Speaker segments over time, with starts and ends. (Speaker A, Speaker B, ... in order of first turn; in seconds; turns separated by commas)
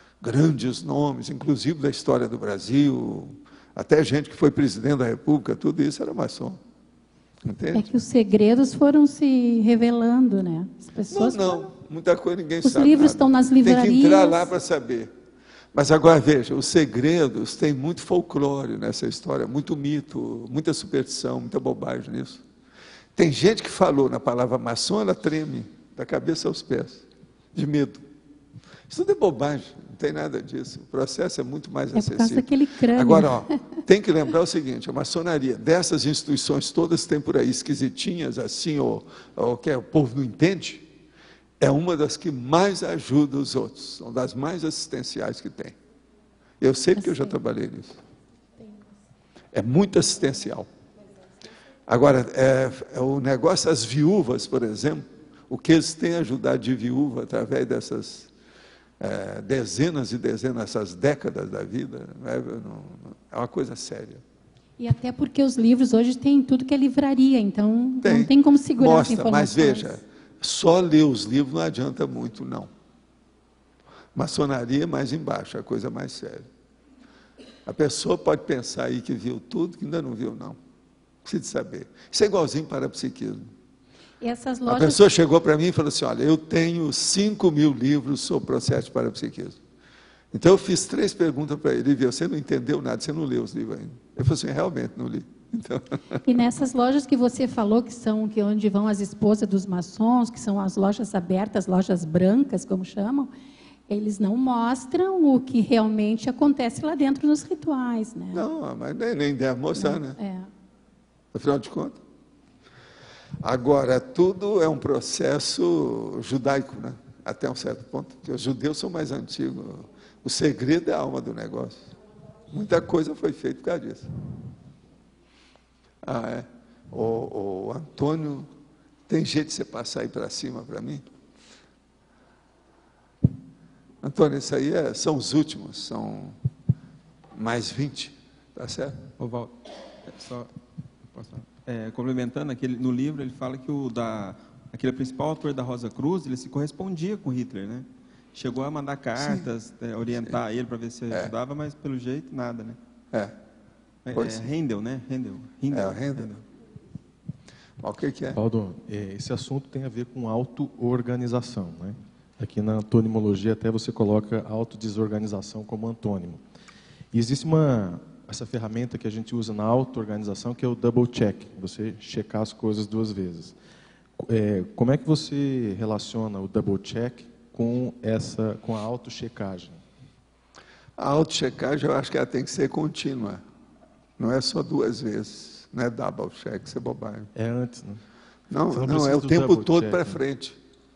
Speaker A: 0.2-6.6, Speaker A: 7.5-7.9, Speaker B: 7.7-11.7, Speaker A: 11.1-15.1, Speaker B: 12.6-14.5, Speaker A: 15.7-22.4, Speaker A: 23.2-27.0, Speaker A: 27.6-28.0, Speaker A: 28.9-40.9, Speaker B: 31.9-33.6, Speaker A: 41.6-45.8, Speaker A: 46.6-48.0, Speaker B: 47.0-47.4, Speaker A: 49.5-50.7, Speaker A: 51.9-58.3, Speaker A: 59.0-64.2, Speaker B: 64.8-70.0, Speaker A: 68.0-72.7, Speaker A: 74.2-76.5, Speaker A: 77.7-80.6, Speaker A: 81.2-83.5, Speaker B: 84.2-85.0, Speaker A: 84.7-89.6, Speaker A: 90.3-96.2, Speaker B: 96.2-103.3, Speaker B: 103.9-108.5, Speaker A: 108.3-110.2, Speaker B: 109.8-110.5, Speaker A: 111.3-112.0, Speaker A: 113.4-121.9, Speaker A: 122.5-124.1, Speaker A: 126.0-128.5, Speaker A: 129.1-131.0, Speaker A: 134.0-136.4, Speaker A: 137.4-139.0, Speaker C: 139.2-139.5, Speaker C: 140.1-140.5, Speaker C: 141.1-152.8, Speaker C: 154.1-156.4, Speaker A: 154.1-154.5, Speaker A: 155.7-156.4, Speaker A: 157.8-158.4, Speaker D: 158.3-166.4, Speaker D: 167.1-173.6, Speaker D: 174.2-179.8, Speaker A: 181.0-183.4, Speaker A: 184.2-187.3, Speaker D: 187.3-188.0, Speaker A: 188.5-190.6, Speaker D: 188.7-190.2